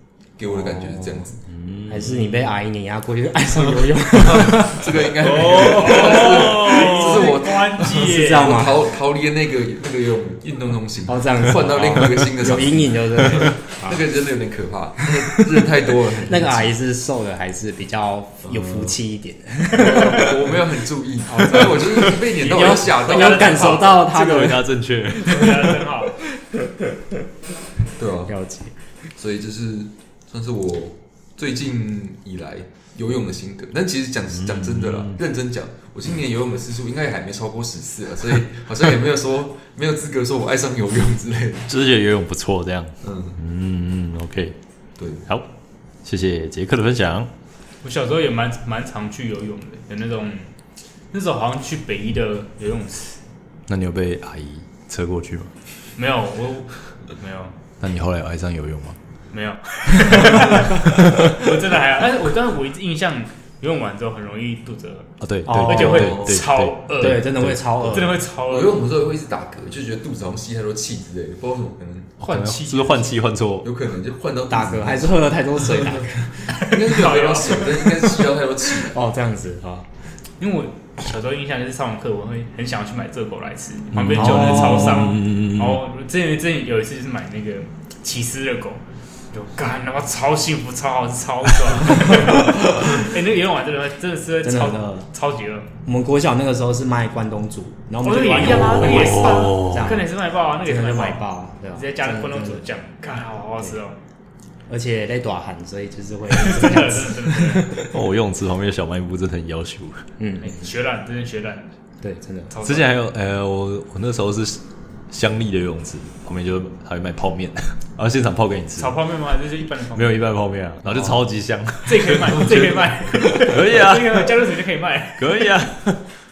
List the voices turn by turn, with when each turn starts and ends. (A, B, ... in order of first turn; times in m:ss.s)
0:00.4-0:01.4 A
0:01.5-0:02.4 B
0:01.9-0:04.9 C
0:04.2-0:16.7 A
0:05.2-0:08.6 D
0:05.3-0:07.2 B
0:07.9-0:08.8 C
0:11.1-0:14.0 C
0:15.0-0:15.5 C
0:16.1-0:20.6 C
0:19.7-0:24.0 A
0:21.3-0:24.7 C
0:22.4-0:23.8 D
0:23.7-0:25.8 B
0:25.2-0:26.2 D
0:25.3-0:25.7 C
0:28.0-0:28.3 A
0:28.3-0:28.8 C
0:29.2-0:41.7 A
0:34.3-0:35.2 B
0:41.6-0:44.6 B
0:43.0-0:43.4 A
0:45.0-0:45.2 A
0:46.0-0:47.3 B
0:47.8-0:50.5 D
0:51.1-0:53.2 D
0:53.7-0:55.5 B
0:55.9-0:57.6 D
0:57.8-0:59.0 B
0:59.3-1:05.1 D
1:01.0-1:01.3 B
1:05.2-1:08.0 B
1:05.4-1:06.1 C
1:05.6-1:08.8 D
1:07.0-1:08.2 C
1:08.5-1:12.1 A
1:12.2-1:13.7 B
1:12.2-1:13.1 D
1:13.6-1:16.0 A
1:14.5-1:16.8 C
1:16.6-1:19.0 A
1:16.7-1:17.6 D
1:18.9-1:19.9 C
1:20.4-1:35.7 D
1:23.9-1:25.8 B
1:24.2-1:25.0 C
1:34.4-1:35.1 C
1:35.8-1:40.1 C
1:38.0-1:44.0 D
1:38.4-1:39.8 B
1:40.6-1:42.6 C
1:44.7-1:47.9 C
1:46.3-1:47.7 D
1:47.9-1:50.0 B
1:50.2-1:50.6 C
1:50.4-1:51.7 D
1:52.0-1:52.6 C
1:52.5-1:53.0 D
1:52.6-1:58.9 B
1:58.8-2:00.3 D
1:59.9-2:04.3 B
2:01.8-2:05.4 D
2:05.2-2:06.1 B